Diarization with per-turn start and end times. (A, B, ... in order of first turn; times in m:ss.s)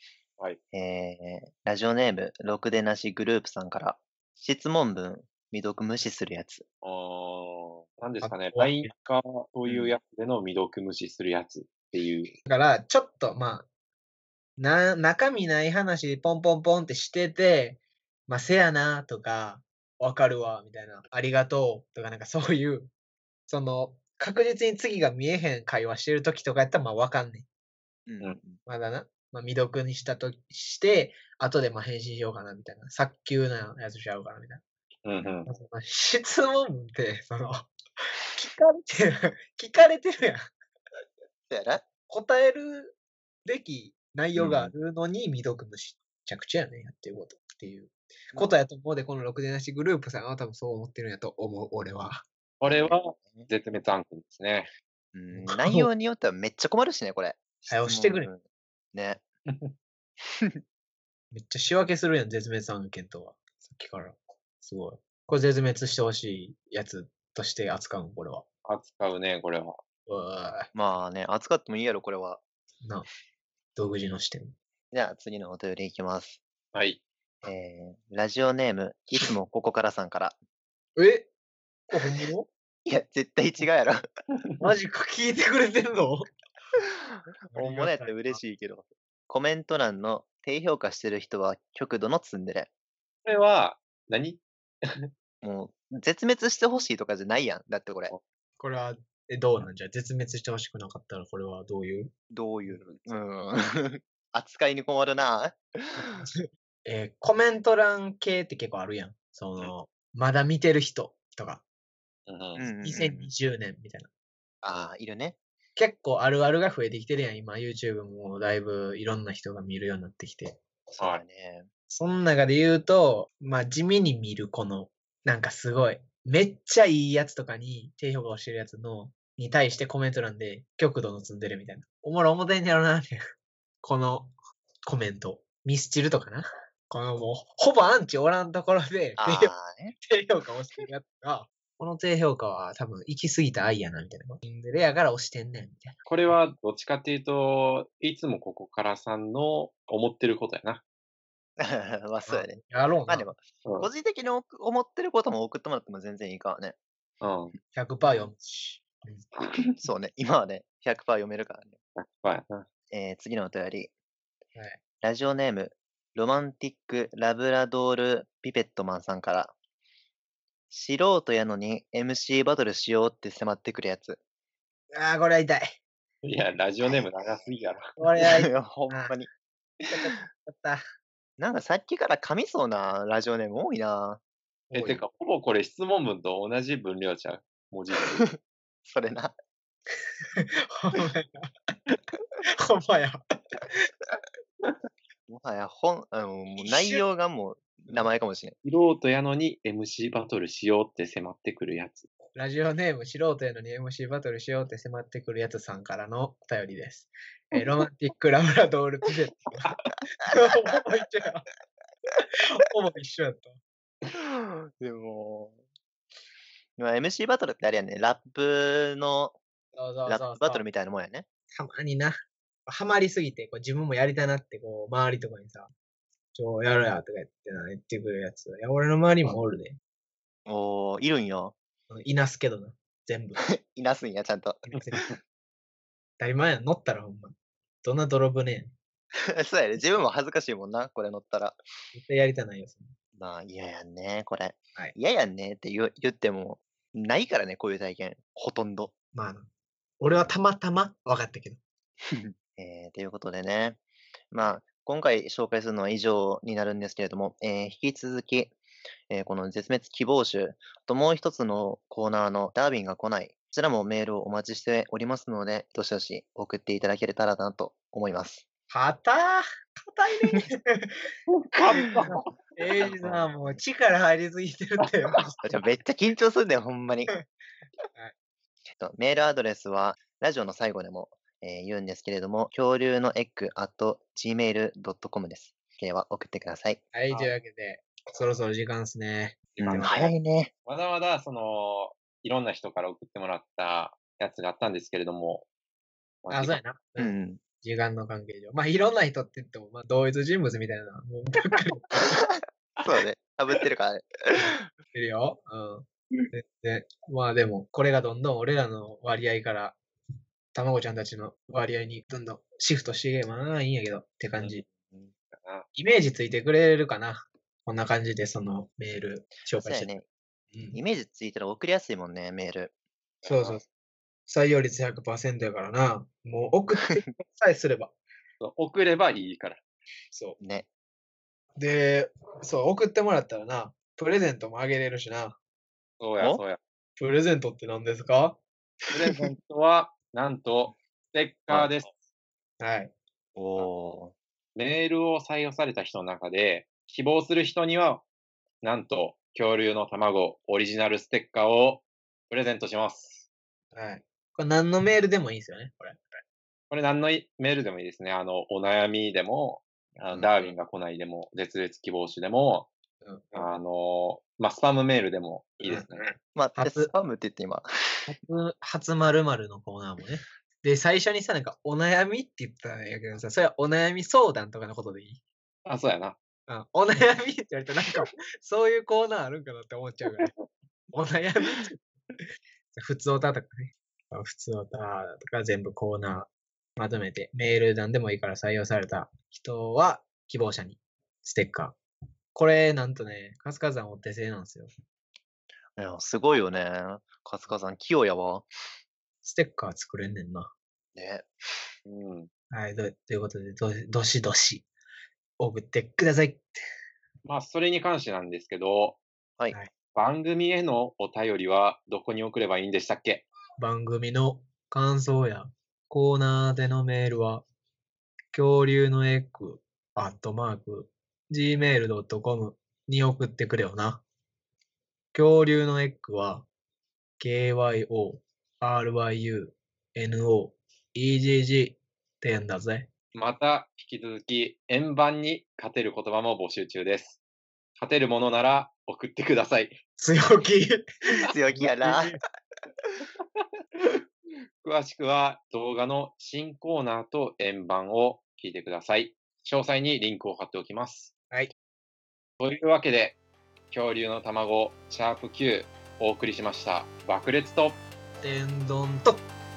0:00.7-0:06.6 A
0:06.8-0:12.4 B
0:08.2-0:08.9 C
0:09.7-0:10.0 A
0:12.5-0:13.7 C
0:14.6-0:22.9 C
0:23.5-0:27.5 C
0:28.1-0:28.6 A
0:28.7-0:34.6 C
0:35.0-0:35.5 B
0:35.5-0:40.5 C
0:41.5-0:41.9 A
0:42.1-0:52.2 C
0:44.4-0:44.7 A
0:52.6-0:54.7 B
0:52.6-0:53.5 A
0:55.1-0:59.2 A
0:55.3-0:55.9 C
0:57.7-0:58.3 C
0:59.5-0:59.7 B
1:01.3-1:08.4 C
1:08.7-1:09.8 B
1:10.1-1:10.7 C
1:10.7-1:12.4 A
1:13.8-1:14.6 C
1:14.9-1:16.4 A
1:16.7-1:17.0 B
1:17.4-1:20.4 A
1:21.0-1:21.3 C
1:21.9-1:22.5 C
1:22.9-1:24.0 A
1:24.6-1:26.3 C
1:27.5-1:28.4 C
1:27.5-1:32.7 A
1:33.2-1:35.1 B
1:35.4-1:38.1 A
1:38.6-1:42.1 C
1:42.3-1:46.2 A
1:42.8-1:43.1 B
1:46.2-1:51.6 C
1:52.3-1:52.7 B
1:52.6-1:53.3 A
1:52.8-1:54.1 C
1:54.6-1:55.4 A
1:55.8-2:00.6 C
2:01.0-2:01.7 A
2:01.9-2:13.2 C
2:13.8-2:14.3 C
2:14.9-2:26.0 C
2:19.2-2:19.9 A
2:26.1-2:30.8 B
2:31.6-2:36.8 A
2:32.3-2:33.3 C
2:33.6-2:33.9 B
2:37.2-2:37.5 B
2:37.7-2:39.3 C
2:39.8-2:41.8 A
2:42.0-2:42.7 B
2:42.9-2:43.9 A
2:44.6-2:44.8 C
2:45.0-2:49.5 A
2:50.7-2:54.2 A
2:54.9-2:55.8 C
2:56.2-2:57.9 B
2:58.0-2:59.1 C
2:58.2-2:59.3 A
2:59.8-3:00.1 A
2:59.9-3:00.8 C
3:01.4-3:04.2 A
3:04.7-3:05.0 C
3:04.7-3:08.3 B
3:08.8-3:09.4 A
3:10.4-3:11.8 C
3:12.4-3:13.2 C
3:15.3-3:18.6 A
3:16.6-3:17.0 C
3:18.6-3:22.1 B
3:22.4-3:31.5 C
3:32.5-3:33.6 C
3:34.1-3:35.6 A
3:36.8-3:39.4 A
3:39.8-3:40.6 C
3:40.1-3:41.3 A
3:41.5-3:45.7 C
3:46.4-3:49.8 C
3:50.5-3:51.6 A
3:51.9-3:53.4 C
3:53.5-3:54.7 A
3:54.7-3:55.1 C
3:56.2-3:58.7 C
3:59.4-4:01.6 A
4:01.9-4:03.0 C
4:03.2-4:08.9 A
4:09.1-4:09.5 C
4:10.0-4:11.6 C
4:12.1-4:18.6 A
4:19.1-4:28.4 A
4:28.7-4:31.1 C
4:31.3-4:32.2 B
4:31.8-4:35.4 C
4:33.0-4:33.6 A
4:35.4-4:37.1 A
4:38.8-4:46.8 A
4:46.9-4:50.1 C
4:49.6-4:49.9 B
4:49.6-4:50.5 A
4:50.7-4:55.5 B
4:56.2-4:56.6 B
4:56.3-5:02.3 C
4:57.0-4:57.4 A
5:02.8-5:04.7 A
5:04.9-5:09.8 C
5:10.5-5:14.6 C
5:15.3-5:15.7 B
5:15.8-5:19.9 C
5:19.4-5:20.1 A
5:20.5-5:20.8 C
5:20.7-5:22.7 A
5:23.2-5:23.6 B
5:23.3-5:23.6 C
5:24.3-5:27.9 C
5:28.4-5:29.6 B
5:30.1-5:30.4 C
5:30.4-5:30.7 A
5:31.6-5:35.4 C
5:36.0-5:36.6 B
5:37.0-5:38.4 C
5:38.9-5:42.0 B
5:42.6-5:42.9 C
5:43.4-5:44.2 A
5:44.6-5:48.0 B
5:48.6-5:53.3 B
5:53.7-5:56.0 C
5:56.7-6:02.7 B
6:03.0-6:03.3 C
6:03.3-6:06.1 B
6:05.6-6:06.9 C
6:06.4-6:08.1 A
6:08.1-6:15.2 C
6:15.7-6:16.2 B
6:16.5-6:20.3 C
6:20.2-6:20.4 B
6:20.9-6:21.7 C
6:22.8-6:31.8 C
6:32.3-6:34.7 C
6:35.8-6:38.5 A
6:39.2-6:40.5 C
6:41.0-6:41.3 A
6:41.8-6:42.3 B
6:42.5-6:44.7 C
6:45.4-6:46.6 C
6:47.2-6:49.0 B
6:49.9-6:53.2 B
6:53.6-6:57.4 C
6:58.3-7:04.0 C
7:05.1-7:06.5 C
7:07.2-7:12.9 C
7:13.1-7:17.2 B
7:17.8-7:19.8 B
7:20.0-7:22.2 C
7:21.2-7:22.2 A
7:24.6-7:31.1 B
7:32.4-7:33.2 B
7:33.7-7:37.8 B
7:38.2-7:39.2 C